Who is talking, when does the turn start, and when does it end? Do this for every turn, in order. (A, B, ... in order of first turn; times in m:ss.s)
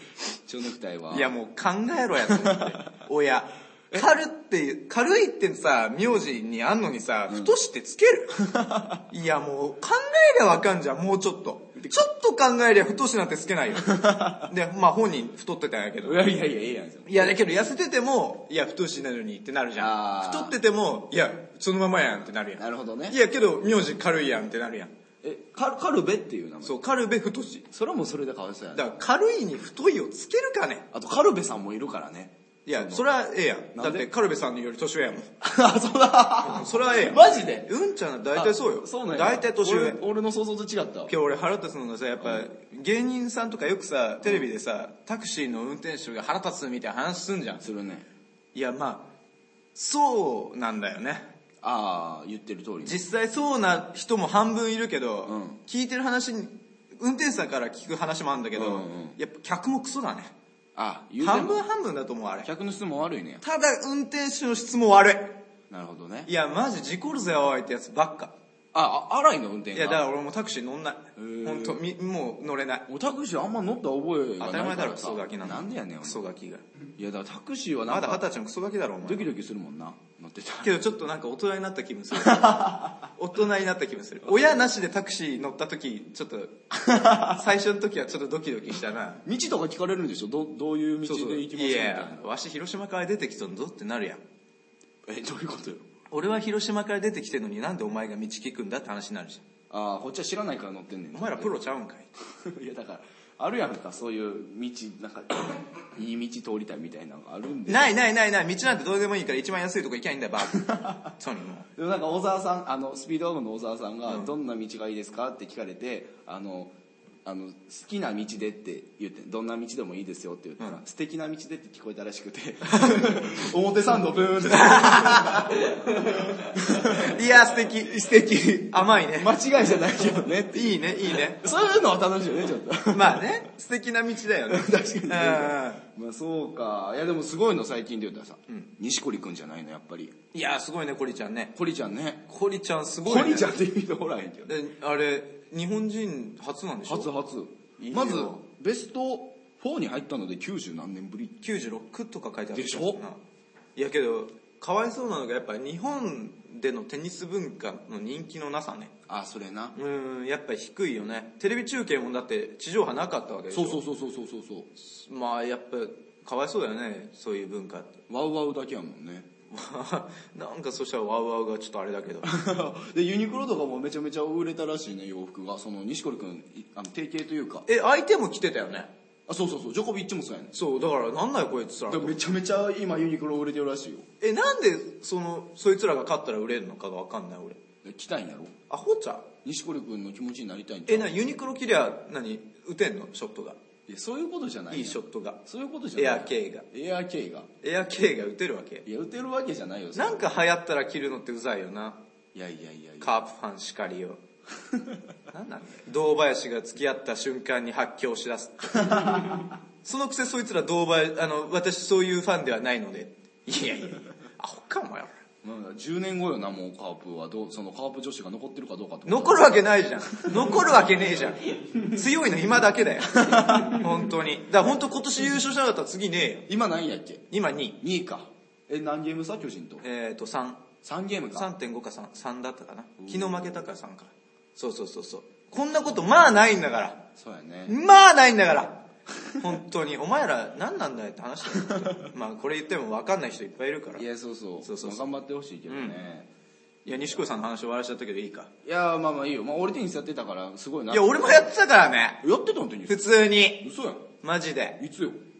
0:00.5-0:01.3 A
0:01.1-0:08.4 B
0:02.3-0:03.0 A
0:08.4-0:09.0 A
0:09.1-0:16.2 B
0:13.8-0:14.5 A
0:16.0-0:17.4 A
0:17.1-0:24.9 B
0:19.8-0:20.6 A
0:22.6-0:23.2 A
0:25.2-0:26.8 A
0:26.6-0:27.7 B
0:27.7-0:28.8 A
0:28.7-0:30.9 B
0:30.9-0:33.1 A
0:32.7-0:35.3 B
0:33.7-0:34.1 A
0:35.4-0:37.7 A
0:36.4-0:40.0 B
0:38.3-0:41.1 A
0:41.1-0:47.6 B
0:47.6-0:48.1 A
0:48.5-0:49.1 B
0:49.8-0:51.3 B
0:51.6-0:53.0 A
0:52.8-1:00.3 B
0:55.2-0:55.6 A
0:58.6-0:59.2 A
1:00.8-1:01.7 A
1:01.2-1:02.5 B
1:02.4-1:03.4 A
1:03.4-1:05.4 B
1:05.7-1:06.3 A
1:06.3-1:08.4 B
1:08.7-1:10.0 A
1:09.7-1:12.9 B
1:11.2-1:11.8 A
1:12.9-1:16.3 A
1:14.4-1:16.6 B
1:17.0-1:18.2 A
1:17.9-1:19.3 B
1:19.0-1:20.8 A
1:20.6-1:29.2 B
1:22.2-1:23.1 A
1:26.7-1:27.4 A
1:29.2-1:32.2 A
1:31.1-1:34.2 B
1:35.1-1:35.9 A
1:36.1-1:39.4 B
1:39.7-1:41.6 A
1:41.1-1:42.1 B
1:42.3-1:47.8 A
1:47.7-1:51.7 B
1:50.5-1:51.1 A
1:51.8-1:56.7 A
1:57.3-2:07.2 A
2:02.7-2:03.1 B
2:04.4-2:05.6 B
2:06.8-2:08.0 B
2:07.8-2:13.3 A
2:08.5-2:09.4 B
2:10.5-2:11.4 B
2:12.9-2:15.8 B
2:14.5-2:20.2 A
2:20.3-2:21.6 B
2:21.6-2:22.3 A
2:22.3-2:23.5 B
2:23.0-2:24.6 A
2:24.5-2:27.1 B
2:26.9-2:31.4 A
2:27.8-2:28.4 B
2:31.4-2:33.2 B
2:32.5-2:33.0 A
2:33.8-2:38.9 B
2:39.1-2:39.8 A
2:39.8-2:43.8 B
2:43.5-2:44.7 A
2:44.8-2:48.0 B
2:48.1-2:49.3 A
2:49.5-2:52.3 B
2:52.2-2:57.7 A
2:57.7-2:58.9 B
2:59.3-3:00.6 A
3:00.5-3:02.2 B
3:01.9-3:04.1 A
3:04.2-3:07.6 B
3:07.8-3:08.6 A
3:08.7-3:09.3 B
3:09.4-3:11.2 A
3:10.9-3:13.6 B
3:13.9-3:17.5 A
3:14.7-3:15.4 B
3:16.0-3:16.7 B
3:17.6-3:18.9 B
3:18.9-3:20.4 A
3:20.0-3:22.0 B
3:22.3-3:23.2 A
3:23.0-3:24.2 B
3:24.6-3:25.0 A
3:25.3-3:35.1 B
3:28.8-3:29.5 A
3:35.4-3:40.6 A
3:39.0-3:46.5 B
3:43.1-3:44.1 A
3:46.5-3:47.3 A
3:47.3-3:47.8 B
3:47.8-3:49.8 A
3:49.8-3:50.7 B
3:50.8-3:51.5 A
3:51.3-3:57.0 B
3:53.0-3:53.7 A
3:57.2-3:57.8 A
3:57.7-3:58.8 B
3:59.4-4:04.0 B
4:01.8-4:02.1 A
4:04.0-4:06.3 A
4:04.6-4:05.1 B
4:05.7-4:06.0 B
4:06.8-4:08.5 B
4:08.6-4:11.5 A
4:10.9-4:12.2 B
4:12.2-4:14.1 A
4:12.9-4:13.7 B
4:14.2-4:14.8 B
4:14.8-4:15.2 A